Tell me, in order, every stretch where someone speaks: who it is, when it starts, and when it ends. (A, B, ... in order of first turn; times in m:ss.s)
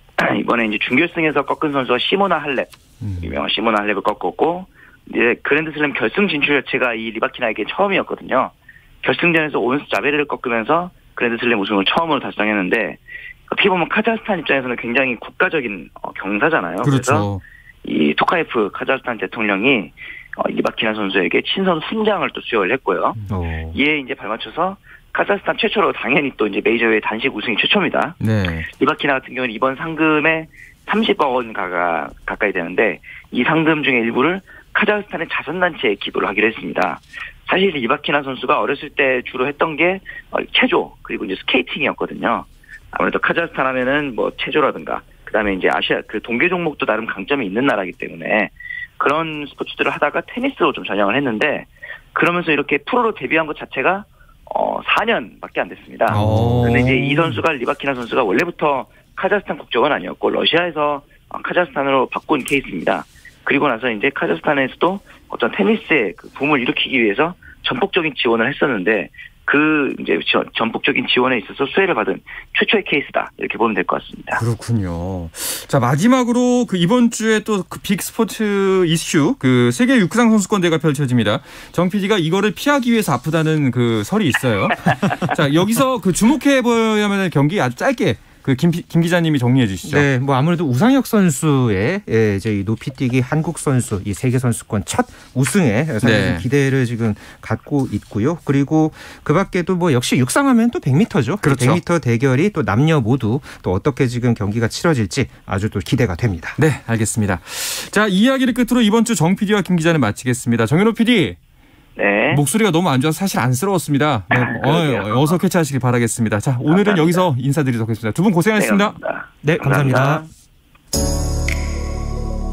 0:00.2-0:17.3 A
0:03.0-0:03.3 B
0:16.8-0:17.4 C
0:17.8-0:23.2 A
0:23.2-0:23.8 B
0:23.7-0:28.2 A
0:28.2-0:28.7 C
0:28.7-1:14.4 A
0:56.1-0:57.3 C
0:56.1-0:56.9 B
1:14.3-1:30.0 C
1:29.8-1:46.6 B
1:36.0-1:36.4 C
1:41.4-1:41.8 C
1:46.6-1:51.4 C
1:52.0-1:52.4 A
1:52.3-1:59.0 C
1:54.3-1:55.4 A
1:56.7-1:57.3 A
1:58.6-2:00.3 A
1:59.4-2:00.3 B